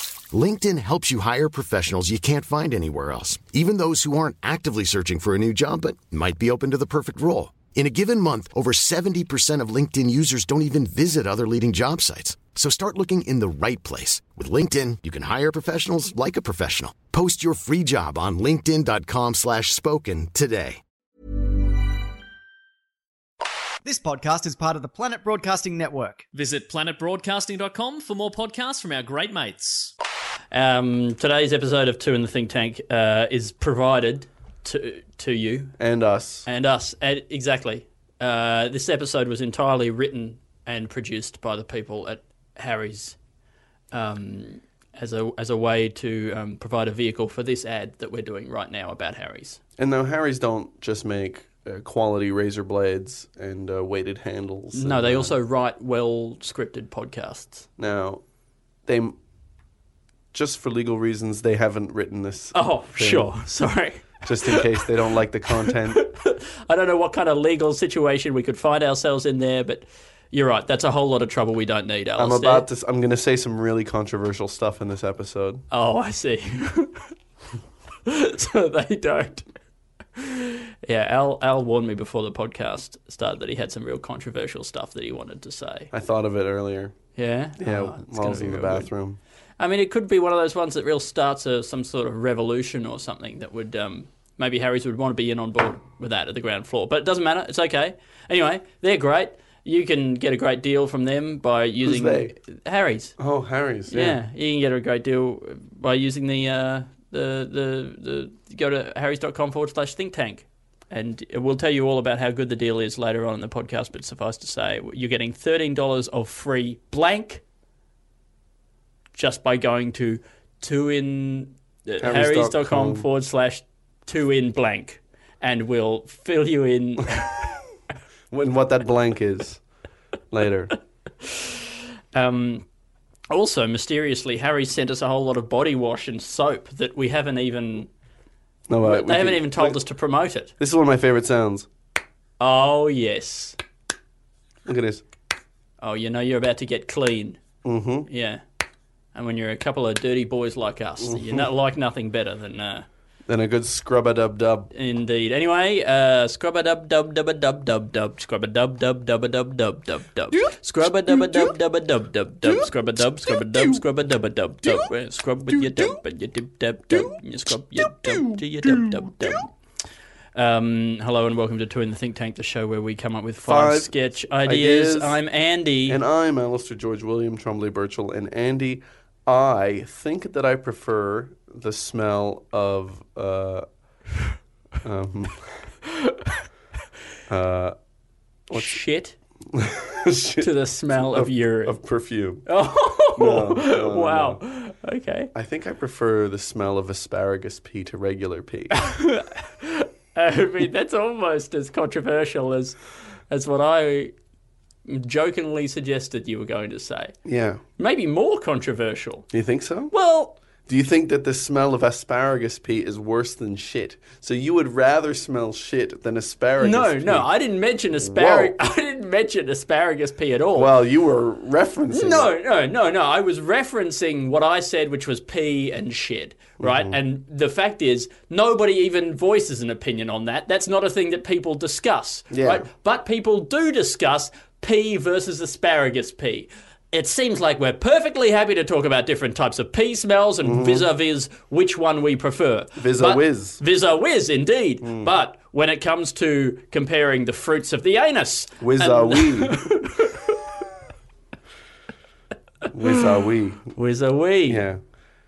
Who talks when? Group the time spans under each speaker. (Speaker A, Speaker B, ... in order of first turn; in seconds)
Speaker A: 0.3-20.8
Speaker B: 23.8-26.2
Speaker C: 26.3-29.9
Speaker D: 30.5-35.7, 36.5-43.2, 43.9-49.6, 54.7-57.7, 62.5-64.8, 65.7-72.7, 75.7-77.1, 78.1-79.5, 80.2-85.9, 87.2-88.9, 89.6-103.1, 103.9-117.4, 119.2-127.4, 132.2-132.7, 133.3-137.9, 138.8-140.5, 142.4-143.6, 145.8-147.4, 148.1-148.4, 149.1-152.9, 154.7-169.5, 170.3-176.0, 188.5-189.2, 190.4-191.8, 192.4-195.3, 198.7-202.8, 203.3-204.1, 204.9-207.1, 207.8-209.3, 209.9-210.4, 216.6-220.7, 221.9-250.4, 253.7-254.7
Speaker E: 35.8-36.5, 49.8-55.4, 57.8-58.2, 58.9-59.2, 60.3-63.3, 64.2-66.1, 72.2-75.7, 85.9-87.0, 87.6-89.2, 101.8-102.4, 103.2-104.2, 122.0-123.1, 128.3-129.6, 130.3-130.7, 138.7-139.8, 140.6-141.7, 144.7-145.0, 147.6-148.1, 151.0-151.5, 153.3-154.7, 165.6-165.9, 168.1-169.0, 173.4-175.2, 175.9-183.7, 184.8-185.6, 187.3-187.8, 188.5-188.8, 189.5-192.5, 193.1-194.4, 195.3-198.8, 207.2-207.6, 209.3-209.9, 210.7-217.3, 218.0-218.6, 220.6-222.4, 226.6-227.0, 232.3-232.7, 240.4-240.9, 242.8-243.6, 244.8-245.1, 248.6-249.8, 252.7-253.7, 254.5-254.8